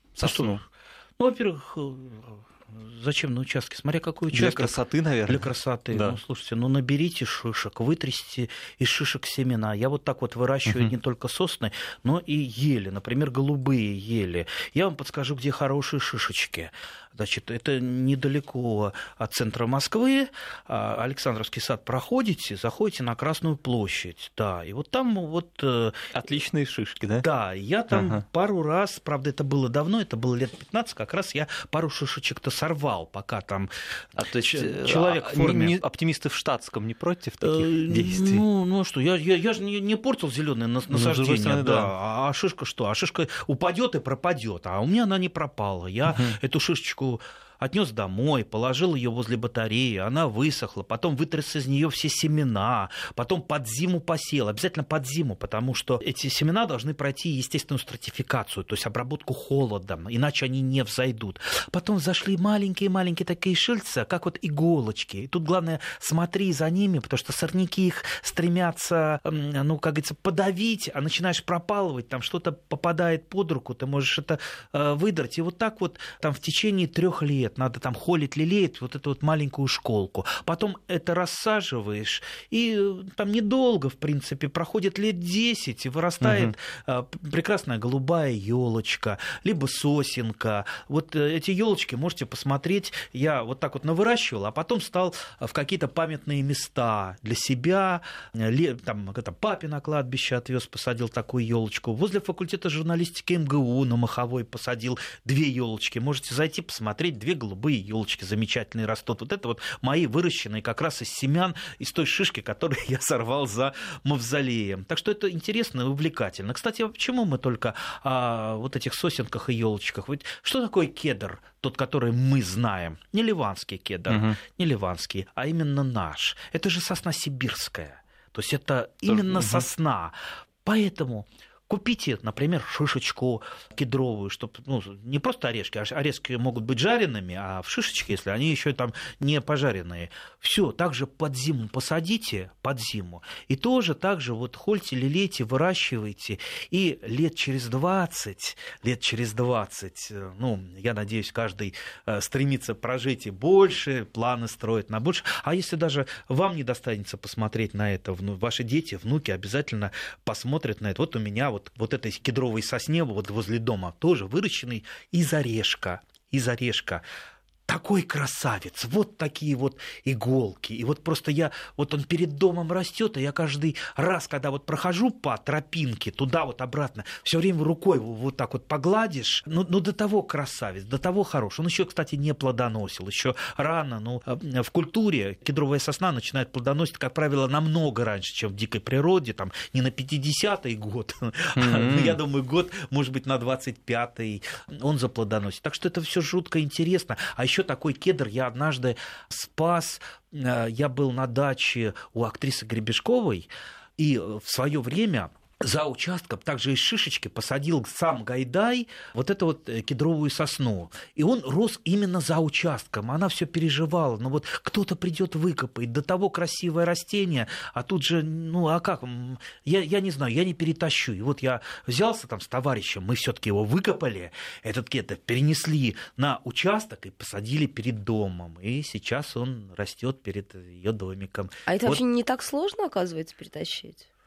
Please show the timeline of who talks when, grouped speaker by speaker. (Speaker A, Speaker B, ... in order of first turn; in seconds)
Speaker A: 0.1-0.6, 4.3-6.2, 10.7-10.9, 26.1-27.2, 27.9-28.2, 34.2-38.4, 40.9-41.9, 46.1-46.4, 86.2-86.5, 124.1-124.4, 129.1-129.7, 191.6-192.2
Speaker B: 0.2-0.7, 1.2-26.1, 27.2-33.7, 34.5-35.8, 37.4-130.1, 130.7-167.0, 167.7-232.0
Speaker C: 231.7-234.1